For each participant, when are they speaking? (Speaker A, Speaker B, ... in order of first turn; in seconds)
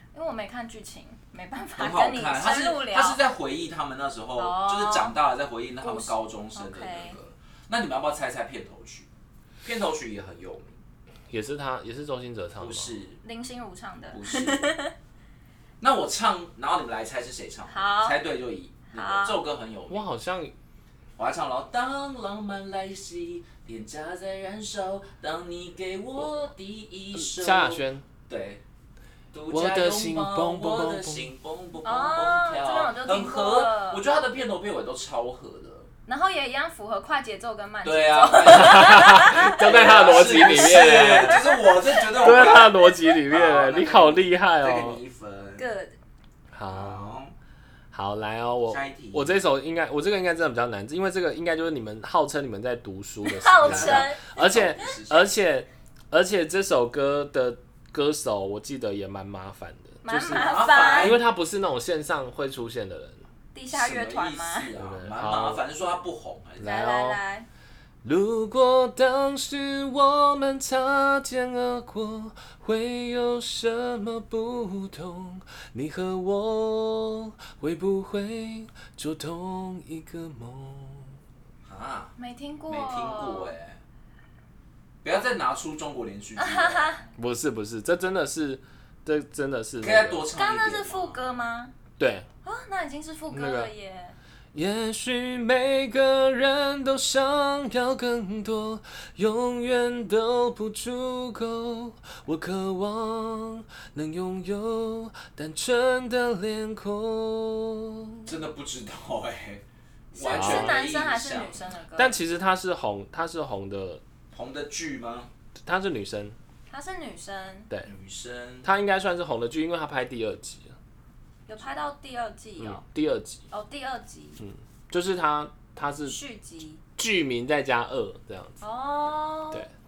Speaker A: 0.1-3.2, 4.4-5.1, 5.8-7.2, 13.2-14.9, 17.7-18.2, 18.9-19.4, 31.8-34.0, 36.1-43.0, 45.6-45.9, 53.2-54.9, 60.0-61.2, 63.5-64.7, 66.6-67.5, 82.2-83.5, 86.4-87.0, 90.3-91.7, 92.4-94.2, 110.1-112.2, 116.7-117.7, 121.5-122.8, 123.5-124.4, 126.0-126.8, 128.6-129.7
Speaker B: 1.8-9.1, 9.6-10.8, 12.6-13.2, 14.1-14.8, 15.8-20.0, 21.2-28.6, 29.3-35.9, 37.8-45.6, 46.7-47.3, 48.7-49.4, 53.6-55.3, 60.2-61.2, 63.7-66.7, 81.6-82.1, 82.7-83.8, 85.0-87.0, 89.8-91.3, 108.2-111.6, 114.3-115.3, 117.8-118.7
Speaker C: 11.3-12.9, 19.9-20.5, 27.1-28.0, 29.5-31.3, 38.5-41.4, 42.1-45.0, 46.5-47.2, 47.9-63.2, 64.7-65.6, 66.6-67.2, 68.0-81.2, 87.2-90.2, 92.0-92.3, 93.3-93.7, 94.5-108.3, 110.3-110.8, 112.0-114.0, 115.6-116.3, 118.6-120.7, 122.6-123.4, 124.4-126.2, 127.0-128.6